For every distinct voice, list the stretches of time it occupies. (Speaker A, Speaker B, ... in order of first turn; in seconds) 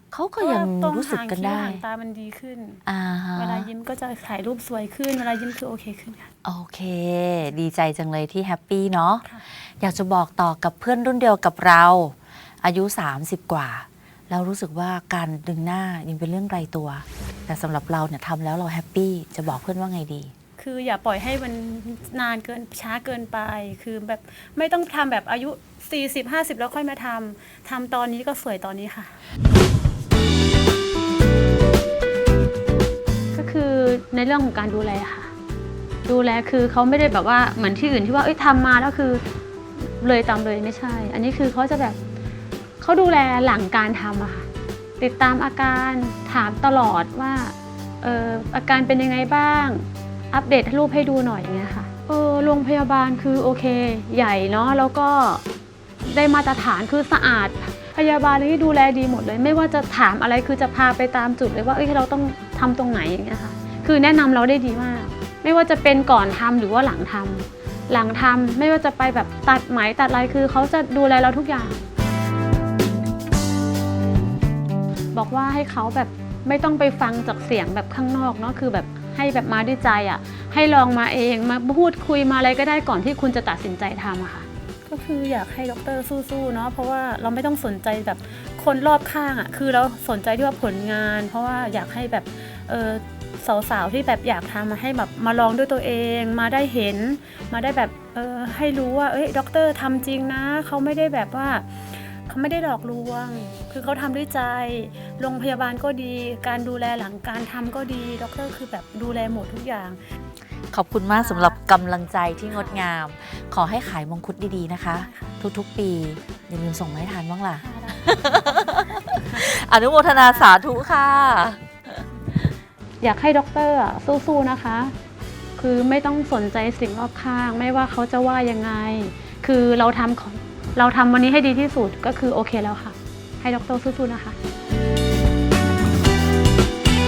Speaker A: 0.1-1.8, 2.9-3.7, 6.5-20.3, 110.7-121.7
Speaker B: 0.4-2.8, 3.4-6.3, 20.6-29.2, 33.3-35.3, 36.1-39.2, 39.8-42.0, 42.8-44.5, 45.0-55.4, 56.0-71.8, 75.1-110.0, 111.1-111.6, 112.5-112.9, 115.0-115.4, 117.6-119.4, 123.0-124.9, 125.6-134.4